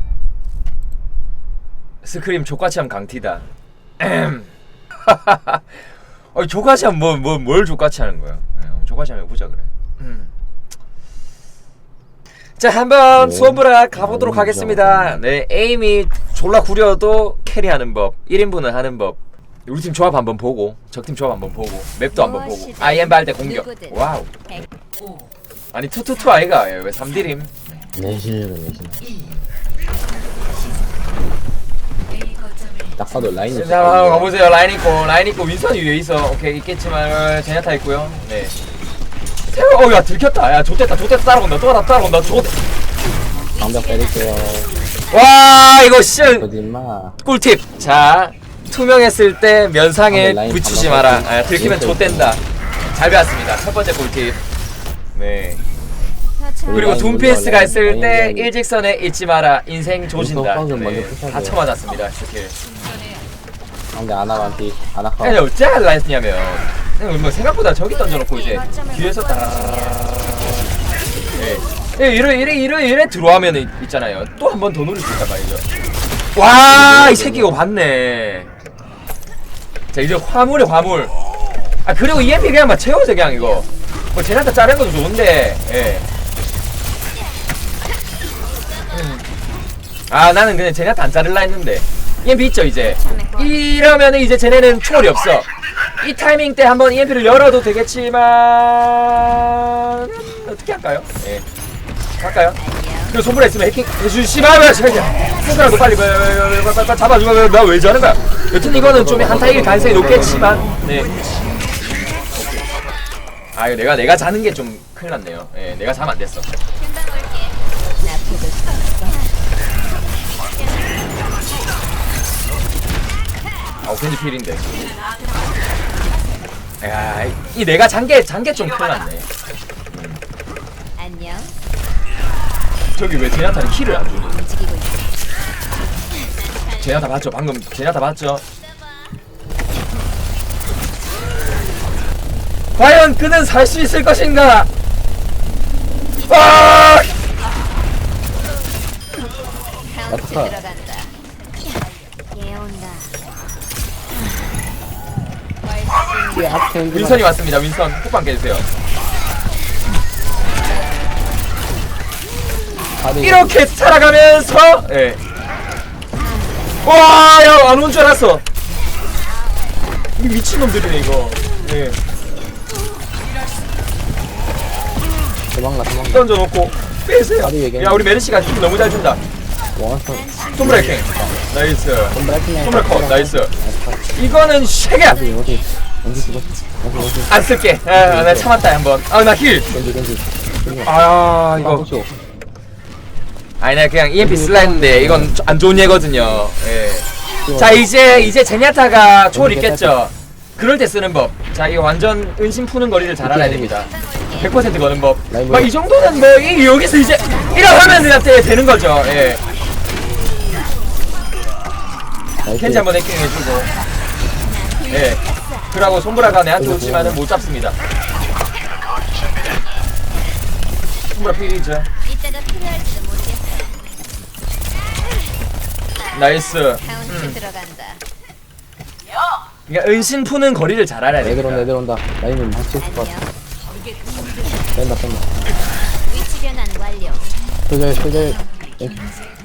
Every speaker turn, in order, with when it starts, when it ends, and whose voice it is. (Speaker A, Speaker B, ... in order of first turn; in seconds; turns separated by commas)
Speaker A: 2.0-3.4, Speaker A: 4.0-4.5, Speaker A: 5.0-10.3, Speaker A: 12.6-24.3, Speaker B: 13.2-15.2, Speaker C: 22.1-24.0, Speaker A: 25.7-27.5, Speaker B: 27.9-29.0, Speaker B: 33.0-34.3, Speaker A: 33.5-38.5, Speaker A: 39.5-42.5, Speaker B: 42.1-42.5, Speaker C: 43.3-44.7, Speaker B: 43.6-44.7, Speaker A: 45.1-46.5, Speaker B: 46.2-47.2, Speaker A: 47.2-54.4, Speaker B: 50.1-52.4, Speaker A: 55.1-55.6, Speaker C: 56.4-57.5, Speaker B: 56.6-58.5, Speaker A: 56.7-62.5, Speaker B: 60.1-61.6, Speaker B: 63.9-65.4, Speaker A: 65.2-70.7, Speaker C: 68.1-70.0, Speaker A: 71.3-75.6, Speaker A: 76.3-78.5, Speaker B: 76.7-77.6, Speaker A: 79.9-81.1, Speaker A: 81.8-86.1, Speaker A: 88.9-89.2, Speaker A: 90.1-95.5, Speaker C: 92.9-93.6, Speaker A: 96.0-101.4, Speaker A: 102.2-111.1, Speaker C: 102.5-103.2, Speaker B: 108.5-110.8, Speaker A: 113.5-116.5, Speaker C: 116.8-119.3, Speaker A: 123.8-124.6, Speaker A: 126.8-129.3, Speaker A: 129.9-130.2, Speaker C: 131.0-131.5, Speaker A: 132.9-134.5, Speaker C: 134.1-135.2, Speaker C: 136.1-137.1, Speaker A: 136.8-138.4, Speaker C: 138.8-139.1, Speaker A: 142.7-144.7, Speaker C: 146.2-147.0, Speaker A: 146.3-147.1, Speaker C: 149.7-151.1, Speaker B: 150.1-150.6, Speaker C: 152.3-153.1, Speaker C: 155.6-156.7, Speaker B: 156.3-157.3, Speaker A: 156.9-158.7, Speaker C: 160.8-161.1, Speaker B: 163.0-163.6, Speaker A: 163.2-165.2, Speaker C: 166.2-167.0, Speaker A: 166.8-168.4, Speaker A: 170.2-172.0, Speaker B: 175.5-176.3, Speaker A: 176.1-179.2, Speaker B: 177.4-178.1, Speaker B: 179.8-181.3, Speaker C: 180.1-181.4, Speaker A: 180.5-183.5, Speaker B: 182.1-184.1, Speaker A: 184.1-185.2, Speaker C: 185.0-185.8, Speaker B: 185.0-188.5, Speaker A: 187.3-189.7, Speaker B: 189.7-190.9, Speaker A: 190.8-191.9, Speaker B: 191.6-192.2, Speaker A: 193.6-209.4, Speaker B: 194.2-196.5, Speaker B: 197.4-198.3, Speaker B: 199.3-200.0, Speaker B: 203.2-203.8, Speaker C: 203.7-204.6, Speaker B: 205.3-205.7, Speaker C: 206.3-208.1, Speaker B: 212.4-212.9, Speaker A: 212.6-213.7, Speaker C: 214.4-215.9, Speaker A: 214.9-217.7, Speaker B: 216.6-217.2, Speaker A: 221.1-221.9, Speaker C: 222.0-223.8, Speaker A: 226.1-227.4, Speaker C: 226.8-228.0, Speaker A: 229.7-231.7, Speaker B: 231.2-233.1, Speaker C: 232.8-233.3, Speaker B: 234.7-235.3, Speaker C: 236.1-237.3, Speaker B: 237.7-239.1